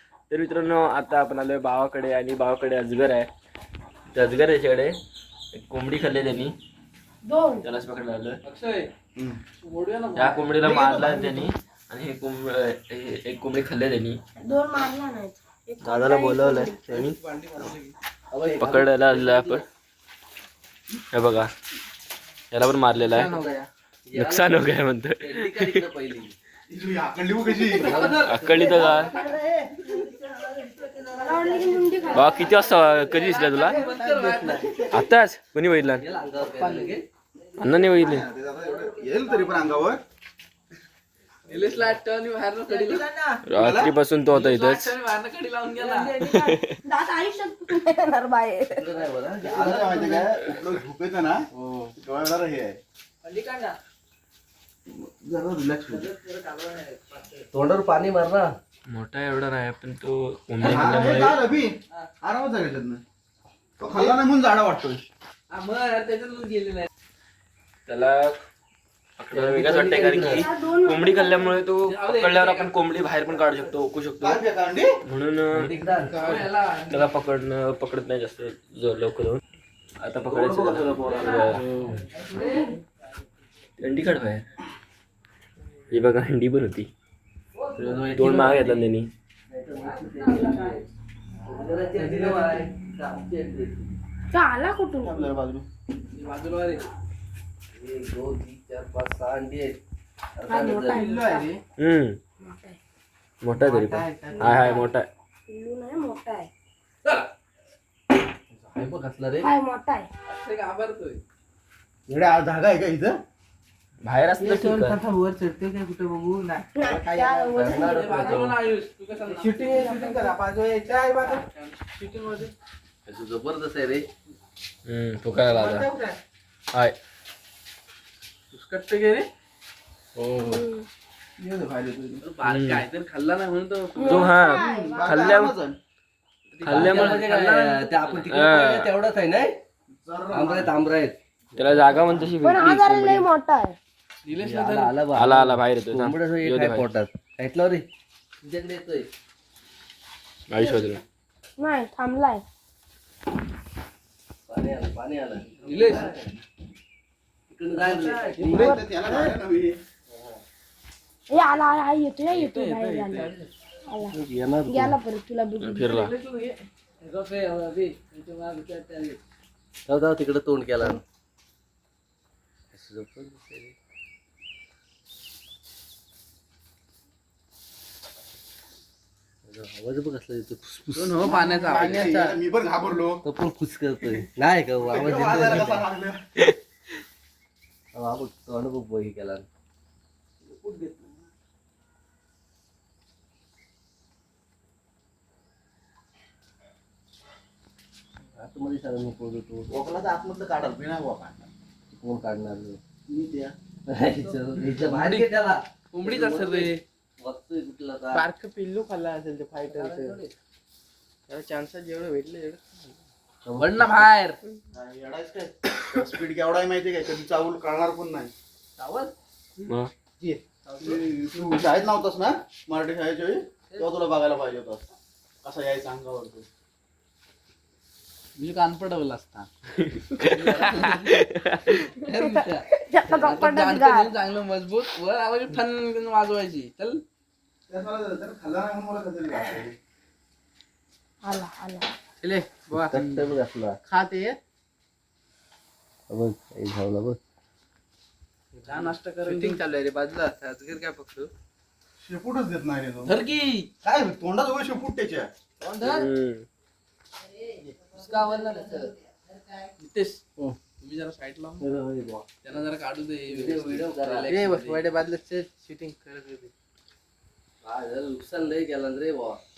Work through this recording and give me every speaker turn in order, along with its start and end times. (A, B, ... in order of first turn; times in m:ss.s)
0:00.3-0:03.3 A
0:04.1-0:05.0 A
0:05.5-0:06.5 A
0:07.2-0:07.6 B
0:07.6-0:08.4 A
0:08.4-0:08.9 C
0:09.6-0:10.5 C
0:10.2-0:14.2 A
0:10.6-0:11.5 D
0:14.4-0:16.8 B
0:15.8-0:17.7 A
0:17.2-0:17.9 C
0:18.3-0:19.6 E
0:18.6-0:19.6 A
0:21.1-0:21.5 A
0:22.5-0:23.3 A
0:23.1-0:23.5 C
0:23.3-0:26.4 E
0:24.1-0:25.8 A
0:26.7-0:28.1 D
0:27.7-0:32.3 E
0:28.2-0:29.2 A
0:31.2-0:32.3 B
0:32.1-0:33.8 A
0:33.2-0:35.1 C
0:33.6-0:34.6 E
0:34.9-0:36.0 A
0:36.0-0:37.0 E
0:36.4-0:37.0 C
0:37.6-0:38.3 A
0:37.9-0:40.0 D
0:38.5-0:39.7 E
0:41.5-0:43.1 C
0:43.4-0:44.9 A
0:43.5-0:43.9 D
0:44.3-0:46.2 C
0:45.8-0:48.9 B
0:46.2-0:46.8 A
0:48.7-0:50.2 E
0:49.4-0:51.4 D
0:51.6-0:51.9 E
0:51.9-0:52.8 D
0:54.9-0:56.1 D
0:57.0-0:57.4 C
0:57.5-0:58.5 E
0:58.9-1:01.4 A
1:00.6-1:03.0 D
1:03.8-1:05.0 D
1:05.5-1:06.9 C
1:07.9-1:08.4 A
1:09.2-1:14.4 A
1:09.3-1:10.4 E
1:10.0-1:11.6 B
1:11.9-1:12.8 C
1:14.2-1:14.9 D
1:15.0-1:15.7 A
1:15.6-1:16.4 E
1:15.9-1:17.1 C
1:16.2-1:16.5 D
1:16.9-1:19.4 A
1:20.0-1:21.6 A
1:20.3-1:22.4 E
1:21.2-1:22.4 C
1:23.8-1:24.4 A
1:25.9-1:26.9 A
1:27.6-1:28.8 E
1:28.1-1:29.1 A
1:29.5-1:30.8 E
1:31.4-1:33.9 E
1:34.3-1:35.3 B
1:35.0-1:35.7 D
1:36.1-1:36.8 C
1:37.7-1:39.8 E
1:40.3-1:41.1 E
1:40.5-1:41.5 B
1:41.8-1:42.2 A
1:42.4-1:42.8 B
1:43.4-1:45.1 A
1:44.3-1:44.8 B
1:45.5-1:46.5 B
1:48.5-1:49.5 E
1:49.4-1:50.1 B
1:50.2-1:51.2 C
1:52.1-1:53.1 D
1:54.0-1:55.0 A
1:56.7-1:58.4 B
1:57.5-1:58.5 E
1:57.8-2:00.3 C
1:58.3-1:58.5 A
1:59.6-2:00.4 B
2:00.7-2:01.0 F
2:01.4-2:02.5 C
2:03.1-2:04.0 E
2:04.8-2:05.9 A
2:08.5-2:09.3 C
2:10.2-2:10.6 E
2:10.4-2:10.9 B
2:11.4-2:12.2 D
2:12.2-2:14.3 C
2:12.4-2:12.8 A
2:13.9-2:15.4 B
2:14.0-2:15.5 A
2:14.6-2:15.8 D
2:16.5-2:18.3 C
2:16.6-2:17.2 A
2:16.6-2:19.6 E
2:18.3-2:18.9 A
2:20.0-2:20.7 D
2:20.3-2:22.3 E
2:21.6-2:23.3 A
2:22.4-2:23.8 B
2:24.2-2:25.0 C
2:24.4-2:27.8 E
2:25.1-2:26.8 A
2:28.4-2:29.1 E
2:30.5-2:31.0 A
2:31.6-2:32.4 B
2:34.5-2:36.3 E
2:35.6-2:36.1 C
2:37.5-2:38.7 E
2:37.8-2:38.6 C
2:38.4-2:39.8 D
2:38.4-2:39.3 B
2:40.1-2:40.4 E
2:41.3-2:43.3 B
2:42.3-2:43.5 C
2:43.9-2:46.1 B
2:44.1-2:45.0 E
2:45.6-2:46.1 A
2:45.9-2:46.6 C
2:47.0-2:49.2 E
2:49.9-2:51.0 E
2:52.7-2:53.7 E
2:59.5-3:01.5 E
3:01.0-3:02.1 C
3:01.5-3:03.2 D
3:03.2-3:05.8 E
3:04.8-3:06.2 D
3:07.9-3:09.4 E
3:10.4-3:11.3 D
3:18.4-3:19.7 E
3:19.7-3:21.5 D
3:21.9-3:22.8 E
3:23.1-3:23.5 D
3:23.9-3:28.3 E
3:24.6-3:25.3 C
3:25.9-3:26.8 C
3:28.3-3:29.1 F
3:29.6-3:30.3 E
3:31.3-3:32.6 F
3:33.4-3:34.1 E
3:33.5-3:34.4 C
3:34.7-3:38.3 D
3:38.8-3:39.1 C
3:39.6-3:39.9 A
3:40.2-3:44.8 D
3:40.7-3:41.0 C
3:45.4-3:46.5 D
3:48.4-3:49.5 C
3:49.8-3:51.7 A
3:50.2-3:51.2 C
3:51.7-3:57.0 C
3:52.1-3:54.1 B
3:57.7-3:59.7 D
4:01.2-4:01.9 B
4:02.7-4:03.8 E
4:03.9-4:04.4 F
4:06.1-4:07.2 E
4:08.6-4:08.9 E
4:08.6-4:09.6 C
4:12.0-4:13.2 D
4:13.0-4:13.7 C
4:13.8-4:15.3 D
4:15.6-4:16.0 C
4:15.8-4:16.5 A
4:17.9-4:18.9 C
4:19.8-4:21.6 C
4:21.6-4:22.3 E
4:22.4-4:24.6 C
4:23.3-4:24.8 E
4:24.4-4:26.5 F
4:27.6-4:29.4 E